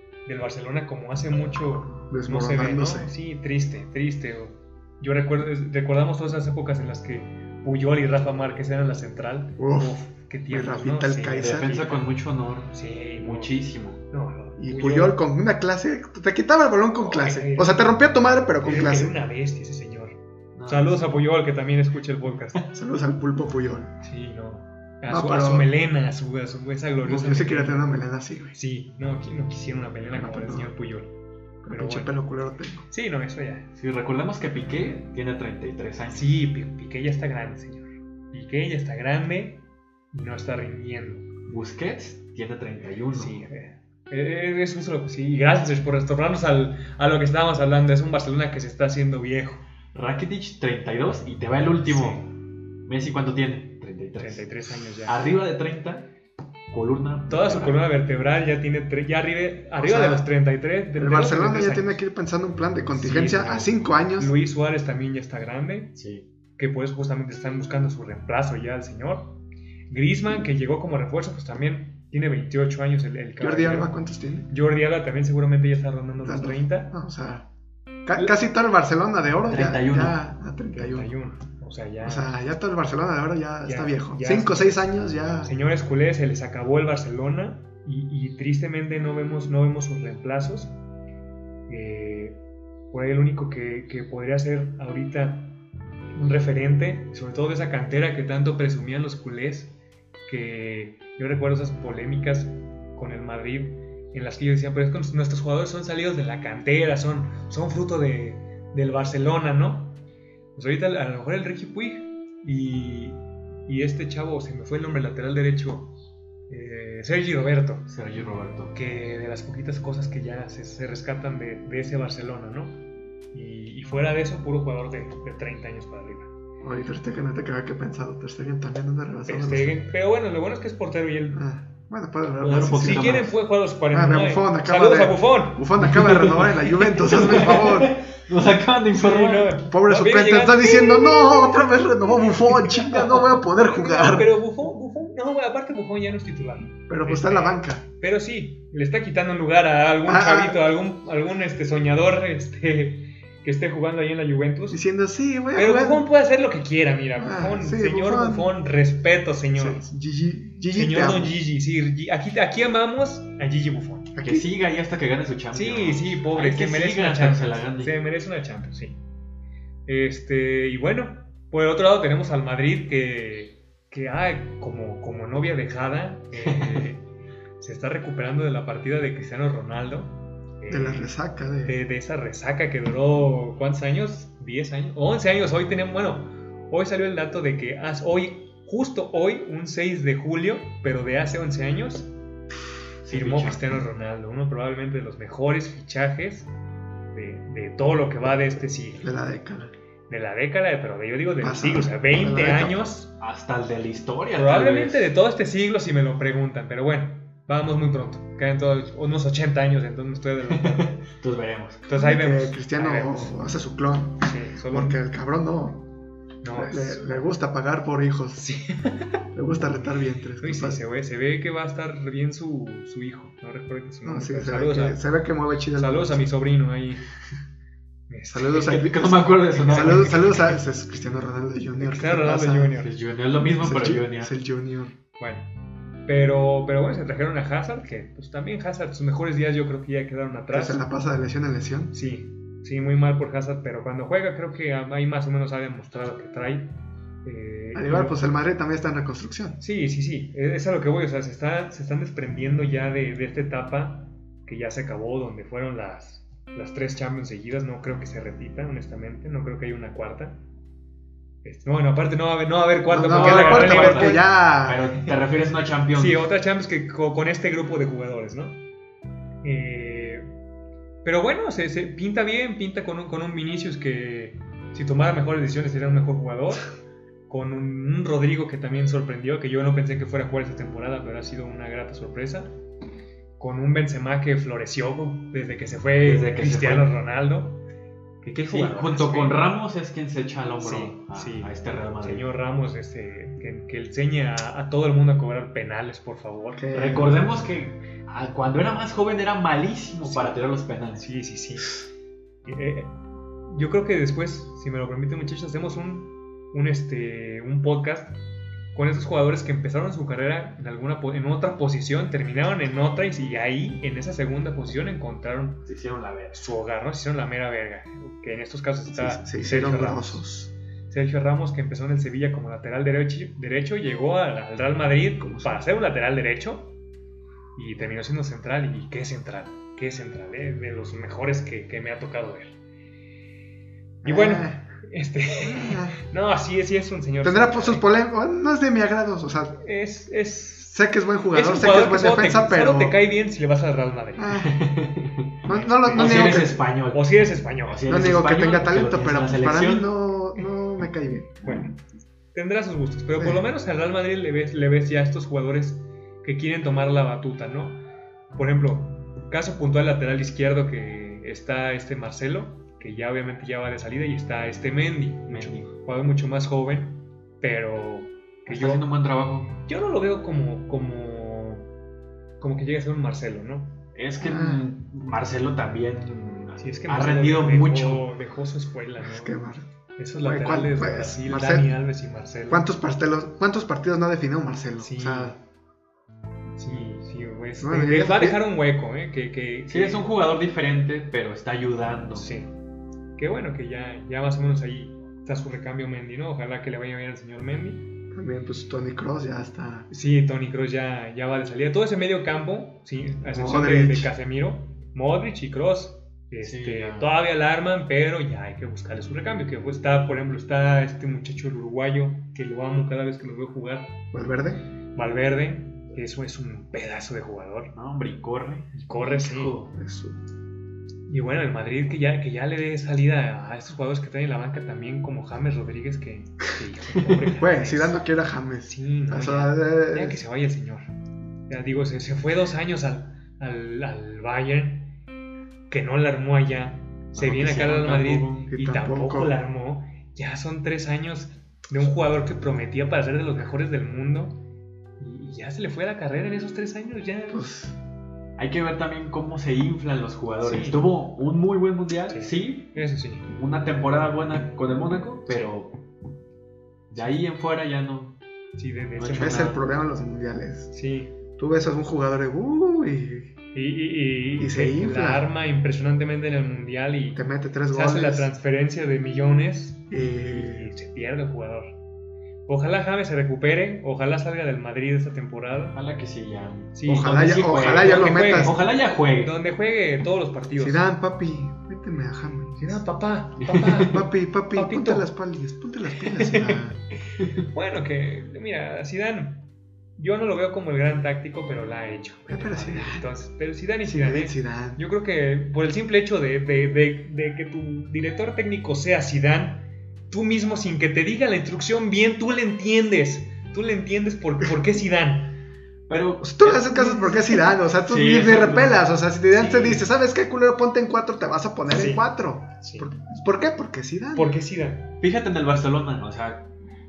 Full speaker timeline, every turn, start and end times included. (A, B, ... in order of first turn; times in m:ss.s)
0:00.2-0:12.1 A
0:02.1-0:03.1 B
0:09.6-0:10.0 B
0:10.5-0:11.7 B
0:11.3-0:14.0 C
0:12.7-0:15.2 A
0:14.6-0:19.2 B
0:17.0-0:18.0 A
0:18.6-0:22.6 A
0:20.5-0:21.2 C
0:22.7-0:23.9 B
0:24.0-0:31.1 A
0:25.1-0:25.7 B
0:27.0-0:28.5 B
0:30.1-0:30.7 B
0:31.6-0:32.8 B
0:31.7-0:32.2 A
0:32.9-0:33.7 A
0:33.8-0:36.3 C
0:36.1-0:41.2 A
0:41.5-0:43.4 C
0:43.1-0:49.6 A
0:49.9-0:52.3 C
0:51.8-0:52.3 A
0:52.8-0:54.5 C
0:54.2-0:55.3 A
0:55.0-0:56.1 C
0:56.7-0:57.9 C
0:57.3-1:02.0 A
0:59.8-1:00.3 B
1:01.0-1:04.3 B
1:02.9-1:05.9 A
1:06.0-1:06.2 C
1:06.6-1:09.4 A
1:09.9-1:13.9 A
1:13.4-1:14.5 B
1:14.5-1:16.9 A
1:16.2-1:17.4 B
1:18.0-1:21.1 B
1:19.5-1:20.2 C
1:20.7-1:22.3 A
1:22.0-1:25.5 B
1:23.6-1:24.8 A
1:25.4-1:30.7 A
1:31.7-1:32.4 A
1:32.9-1:35.6 A
1:36.1-1:39.7 A
1:40.3-1:50.0 A
1:50.5-1:55.9 A
1:56.5-1:57.9 A
1:57.9-1:58.7 C
1:58.7-2:02.8 A
2:03.3-2:06.3 A
2:06.6-2:09.9 B
2:09.2-2:11.4 A
2:11.3-2:13.3 B
2:12.4-2:15.6 A
2:12.4-2:13.3 C
2:13.9-2:17.9 B
2:15.8-2:19.6 C
2:18.9-2:21.7 A
2:19.7-2:24.4 B
2:22.2-2:34.8 A
2:26.9-2:27.8 B
2:30.0-2:30.6 B
2:34.7-2:36.0 B
2:35.5-2:39.8 A
2:37.2-2:38.5 B
2:39.6-2:41.4 B
2:40.7-2:44.1 A
2:44.2-2:44.5 B
2:44.2-2:47.9 C
2:45.5-2:49.0 A
2:49.8-2:57.0 A
2:56.4-2:56.9 C
2:57.6-3:12.1 A
3:00.7-3:01.8 B
3:13.0-3:13.6 C
3:13.1-3:16.5 A
3:17.1-3:19.1 A
3:19.0-3:19.7 B
3:20.1-3:23.1 A
3:21.4-3:22.9 B
3:23.2-3:25.1 C
3:24.3-3:31.0 A
3:30.5-3:31.8 C
3:31.9-3:33.4 A
3:31.9-3:35.9 B
3:34.2-3:35.0 A
3:36.4-3:37.3 A
3:36.5-3:38.4 B
3:38.4-3:39.1 A
3:39.3-3:40.8 B
3:40.4-3:45.0 A
3:44.0-3:46.2 B
3:45.8-3:47.0 A
3:48.1-3:48.8 A
3:48.3-3:52.7 B
3:48.5-3:50.5 C
3:49.7-3:50.1 A
3:51.8-3:52.9 A
3:52.8-3:54.3 C
3:53.4-3:54.9 B
3:55.2-3:55.5 A
3:56.0-4:00.8 A
4:00.5-4:01.9 B
4:01.9-4:06.7 A
4:07.2-4:08.2 A
4:07.7-4:09.6 B
4:09.6-4:20.4 A
4:21.4-4:24.3 A
4:22.9-4:24.8 B
4:23.1-4:26.2 C
4:25.9-4:28.6 A
4:29.4-4:30.2 A
4:31.0-4:36.6 A
4:37.3-4:42.5 A
4:43.4-4:47.6 A
4:46.0-4:46.9 C
4:48.2-4:49.4 A
4:48.3-4:52.3 C
4:50.6-4:56.7 A
4:56.6-4:57.2 B
4:56.7-5:01.1 C
5:00.1-5:00.4 A
5:01.0-5:01.8 A
5:02.4-5:02.9 A
5:03.5-5:08.2 A
5:08.7-5:15.6 A
5:15.6-5:16.5 C
5:16.3-5:20.2 A
5:18.9-5:20.5 B
5:20.9-5:26.7 A
5:25.2-5:25.6 B
5:27.6-5:32.6 A
5:34.0-5:34.6 B
5:34.0-5:37.9 A
5:35.4-5:36.0 B
5:37.2-5:39.6 B
5:39.6-5:40.7 A
5:40.7-5:43.0 B
5:41.3-5:44.5 A
5:44.2-5:44.6 B
5:44.4-5:45.4 C
5:45.4-5:46.6 B
5:45.4-5:47.8 A
5:45.9-5:47.1 C
5:47.7-5:49.9 C
5:47.9-5:51.3 B
5:51.4-5:51.7 A
5:52.3-5:57.8 A
5:53.2-5:53.4 B
5:58.3-6:08.9 A
6:05.3-6:05.7 C
6:08.5-6:09.6 C
6:09.6-6:11.6 A
6:12.4-6:13.8 A
6:13.9-6:18.0 C
6:14.2-6:14.6 B
6:16.6-6:19.4 A
6:19.0-6:19.6 B
6:20.0-6:22.6 A
6:20.2-6:21.8 B
6:22.5-6:25.4 B
6:24.8-6:25.4 A
6:26.6-6:30.1 A
6:27.6-6:28.4 B
6:29.7-6:32.3 C
6:32.2-6:32.5 A
6:33.2-6:37.8 A
6:38.1-6:39.9 B
6:39.9-6:54.0 A
6:43.3-6:44.1 B
6:46.4-6:47.1 C
6:54.1-6:54.6 B
6:54.9-6:57.7 A
6:57.7-6:59.7 C
6:58.7-6:59.5 A
6:59.7-7:00.2 B
7:01.1-7:08.0 A
7:07.4-7:10.2 B
7:08.7-7:10.9 A
7:11.5-7:14.9 A
7:15.7-7:24.4 A
7:17.1-7:18.5 C
7:18.5-7:19.3 B
7:25.0-7:27.5 A
7:27.3-7:27.8 B
7:28.4-7:32.7 C
7:30.4-7:30.9 A
7:32.1-7:33.3 A
7:33.3-7:35.7 C
7:36.9-7:38.2 C
7:38.6-7:39.5 A
7:39.0-7:39.6 C
7:39.1-7:40.7 B
7:40.7-7:41.1 A
7:41.4-7:43.3 B
7:43.5-7:51.7 A
7:44.4-7:45.2 B
7:47.1-7:48.3 B
7:49.9-7:50.7 B
7:52.5-7:55.8 A
7:55.7-7:59.3 C
7:56.7-8:00.8 A
7:56.9-7:58.6 B
8:00.6-8:02.8 B
8:02.6-8:05.1 A
8:03.4-8:03.9 C
8:03.9-8:06.8 B
8:06.0-8:06.6 A
8:07.5-8:09.4 A
8:10.0-8:25.4 A
8:12.3-8:13.0 B
8:13.8-8:14.8 B
8:25.9-8:29.8 C
8:26.2-8:34.3 B
8:31.7-8:32.0 A
8:32.6-8:32.9 A
8:34.1-8:34.9 A
8:35.0-8:36.5 C